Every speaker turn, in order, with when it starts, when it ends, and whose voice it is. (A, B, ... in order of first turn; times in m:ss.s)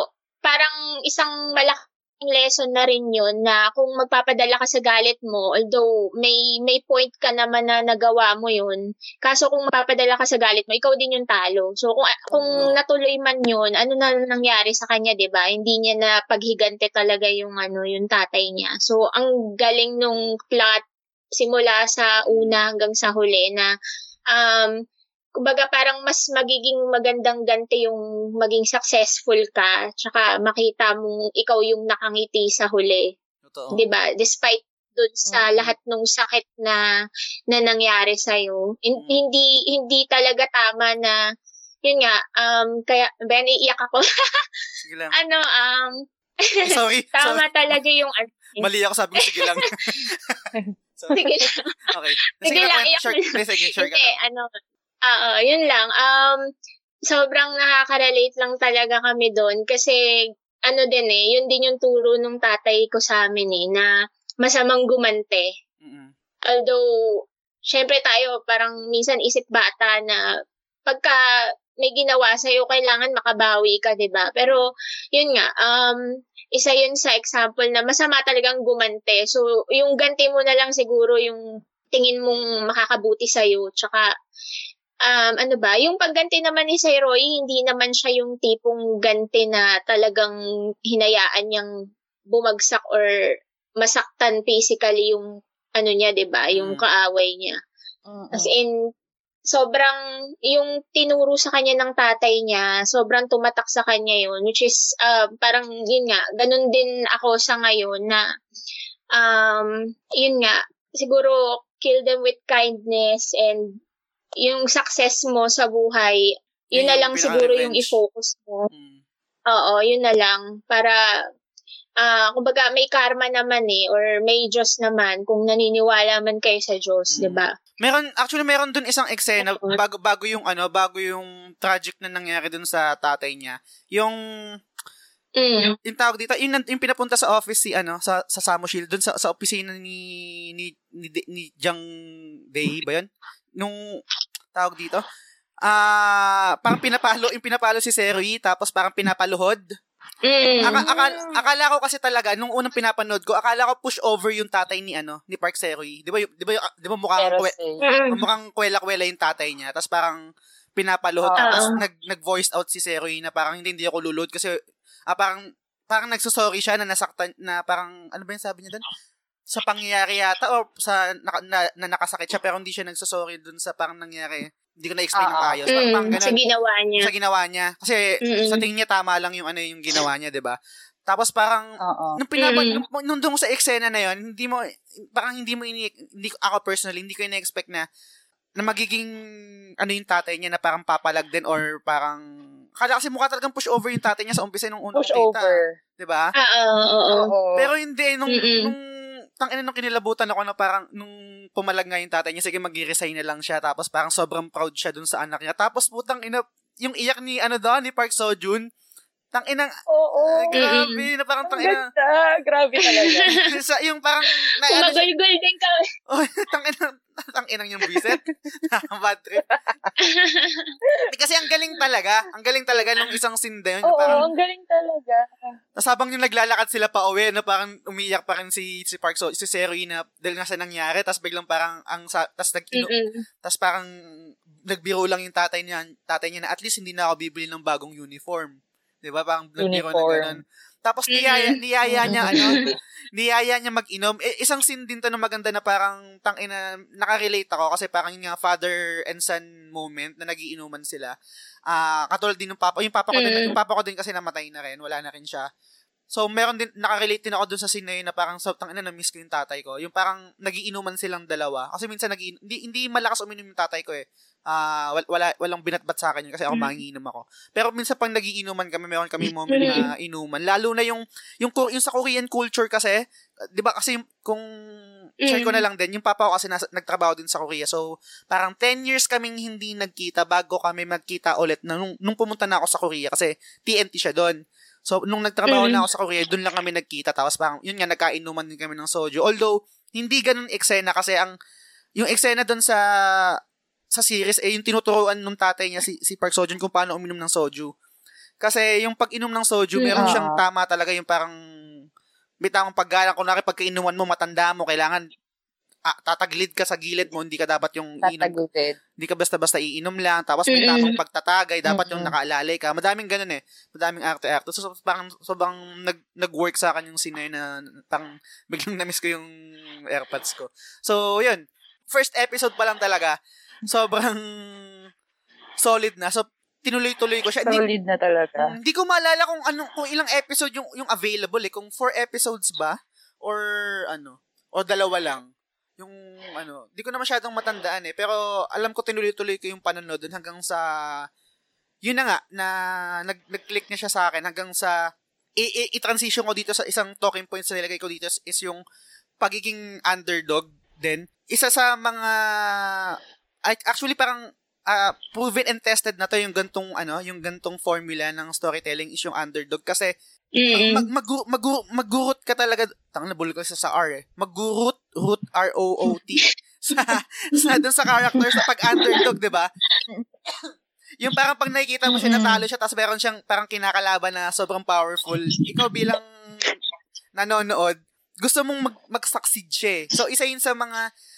0:00.4-0:20.8 A
0:21.4-0:23.7 A
0:24.3-0:24.7 A
0:25.4-0:33.1 A
0:33.5-0:33.8 B
0:33.7-0:36.8 A
0:35.3-0:35.6 C
0:37.5-0:41.2 A
0:39.0-0:39.2 B
0:41.8-0:44.0 A
0:44.8-0:45.2 B
0:45.2-0:45.9 A
0:46.5-0:48.7 A
0:46.7-0:47.7 B
0:48.6-0:50.4 B
0:49.2-0:50.0 A
0:51.1-0:51.6 A
0:51.9-0:54.2 B
0:52.4-0:54.5 A
0:55.1-0:56.4 A
0:57.1-1:00.0 A
1:00.7-1:03.9 A
1:04.4-1:05.5 A
1:05.8-1:06.1 B
1:06.5-1:06.8 A
1:07.7-1:10.2 A
1:10.9-1:11.2 A
1:11.8-1:16.0 A
1:16.6-1:21.4 A
1:21.9-1:24.0 A
1:25.0-1:30.3 A
1:30.9-1:31.7 A
1:32.3-1:33.1 A
1:33.8-1:35.2 A
1:35.8-1:37.6 A
1:36.5-1:36.8 B
1:38.1-1:38.5 C
1:38.3-1:38.7 A
1:39.5-1:40.0 A
1:40.5-1:48.2 A
1:49.2-1:53.7 A
1:54.4-1:58.7 A
1:56.7-1:58.0 B
1:58.7-1:59.0 B
1:59.5-2:01.0 A
2:02.0-2:07.5 A
2:07.2-2:14.2 B
2:09.4-2:09.8 A
2:15.4-2:15.8 A
2:15.8-2:21.8 B
2:22.5-2:23.1 B
2:24.6-2:25.0 B
2:25.7-2:29.6 B
2:30.3-2:31.3 A
2:30.6-2:37.6 B
2:37.2-2:37.8 C
2:37.8-2:38.2 A
2:38.1-2:40.2 B
2:40.8-2:44.5 B
2:41.2-2:41.7 C
2:41.4-2:41.7 A
2:45.1-2:48.8 B
2:49.5-2:56.4 B
2:55.2-2:55.6 C
2:55.7-2:57.1 A
2:57.0-3:00.6 B
2:58.3-2:58.6 A
3:01.1-3:01.6 B
3:01.8-3:02.2 C
3:02.2-3:04.6 B
3:02.4-3:02.8 A
3:05.1-3:07.9 B
3:08.6-3:09.1 B
3:09.8-3:12.2 B
3:12.8-3:16.3 B
3:15.0-3:15.7 C
3:16.4-3:17.3 A
3:17.2-3:17.7 C
3:17.6-3:18.8 B
3:18.3-3:18.7 A
3:19.4-3:28.6 B
3:29.3-3:29.7 B
3:29.9-3:30.6 C
3:30.3-3:31.8 B
3:30.5-3:31.0 A
3:31.5-3:33.3 C
3:32.9-3:33.4 A
3:33.3-3:35.1 B
3:34.7-3:35.8 A
3:36.1-3:39.4 B
3:39.5-3:39.8 C
3:40.0-3:40.7 A
3:41.1-3:44.3 B
3:43.8-3:45.3 C
3:45.8-3:52.9 B
3:52.8-3:53.2 A
3:53.4-3:53.9 B
3:54.7-4:02.6 B
3:59.6-4:00.4 C
4:01.1-4:02.6 A
4:02.1-4:02.4 C
4:03.2-4:11.1 B
4:11.7-4:15.5 B
4:13.2-4:13.5 A
4:16.1-4:33.0 B
4:29.6-4:29.8 A
4:33.6-4:34.4 B
4:35.2-4:35.6 A
4:35.2-4:51.3 B
4:45.5-4:45.8 A
4:52.0-4:52.8 B
4:54.0-4:57.7 B
4:58.4-5:01.4 B
4:59.8-5:00.2 A
5:00.0-5:00.4 C
5:02.4-5:05.0 B
5:05.9-5:08.4 B
5:08.0-5:08.8 C
5:09.0-5:19.3 B
5:10.5-5:10.9 A
5:11.7-5:12.1 C
5:19.9-5:23.2 B
5:23.7-5:24.2 B
5:25.6-5:27.6 B
5:27.5-5:28.5 C
5:28.4-5:40.6 B
5:41.9-5:42.5 B
5:43.1-5:44.8 B
5:45.4-5:48.6 B
5:49.2-5:52.2 B
5:53.5-5:59.9 B
6:00.4-6:00.9 A
6:00.5-6:09.5 B
6:11.0-6:16.1 B
6:11.9-6:12.4 C
6:17.2-6:20.8 B